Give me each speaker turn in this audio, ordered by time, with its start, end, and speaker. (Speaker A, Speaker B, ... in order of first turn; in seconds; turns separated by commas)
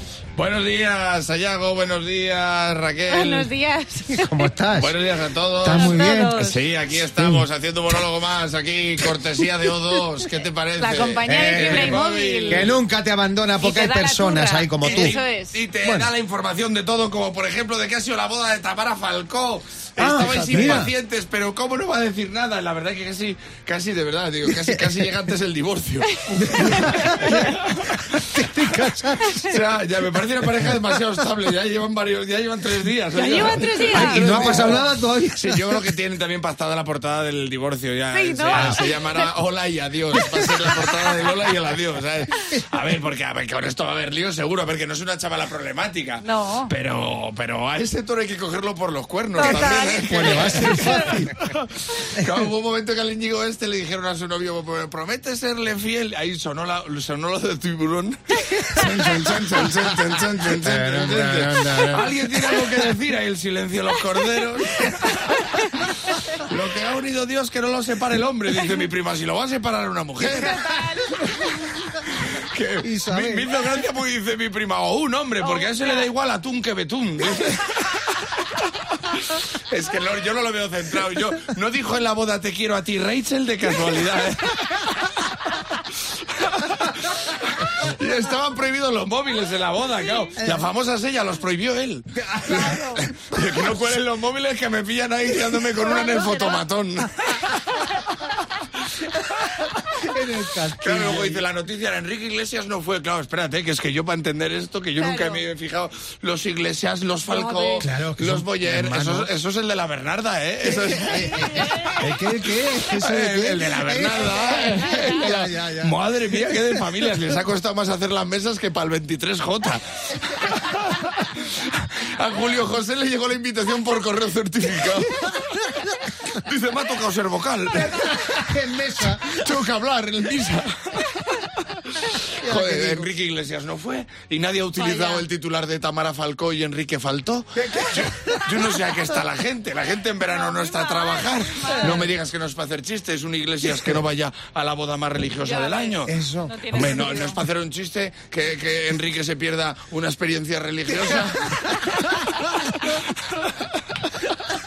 Speaker A: 0.3-3.5, Speaker B: 3.1-4.5, Speaker C: 4.1-4.9, Speaker A: 4.8-12.8, Speaker C: 5.6-6.3, Speaker B: 5.7-6.6, Speaker C: 7.2-7.5, Speaker B: 10.8-12.7, Speaker C: 11.3-15.2, Speaker B: 13.6-15.6, Speaker A: 14.8-70.6, Speaker C: 15.8-16.1, Speaker C: 20.0-20.9, Speaker C: 24.4-25.1, Speaker B: 26.1-27.5, Speaker C: 26.4-29.4, Speaker B: 29.3-29.6, Speaker C: 30.6-30.9, Speaker B: 33.1-34.8, Speaker C: 33.9-35.9, Speaker B: 38.1-39.3, Speaker B: 40.2-40.7, Speaker B: 46.2-46.7, Speaker B: 49.3-51.2, Speaker C: 50.0-51.3, Speaker C: 59.1-62.8, Speaker B: 65.2-66.2, Speaker B: 70.2-71.5, Speaker A: 71.2-154.3, Speaker C: 72.8-73.5, Speaker B: 75.4-76.1, Speaker C: 90.4-90.6, Speaker C: 92.2-93.0, Speaker B: 92.5-93.0, Speaker B: 95.8-96.7, Speaker C: 100.0-101.4, Speaker B: 105.0-105.4, Speaker B: 107.3-107.9, Speaker C: 107.8-109.3, Speaker C: 110.6-116.8, Speaker B: 111.4-112.1, Speaker B: 114.1-115.3, Speaker C: 127.7-129.3, Speaker C: 132.4-133.1, Speaker B: 134.8-135.2, Speaker C: 137.6-138.5, Speaker B: 140.2-142.1, Speaker C: 141.7-142.1, Speaker B: 145.4-147.4, Speaker C: 146.1-146.6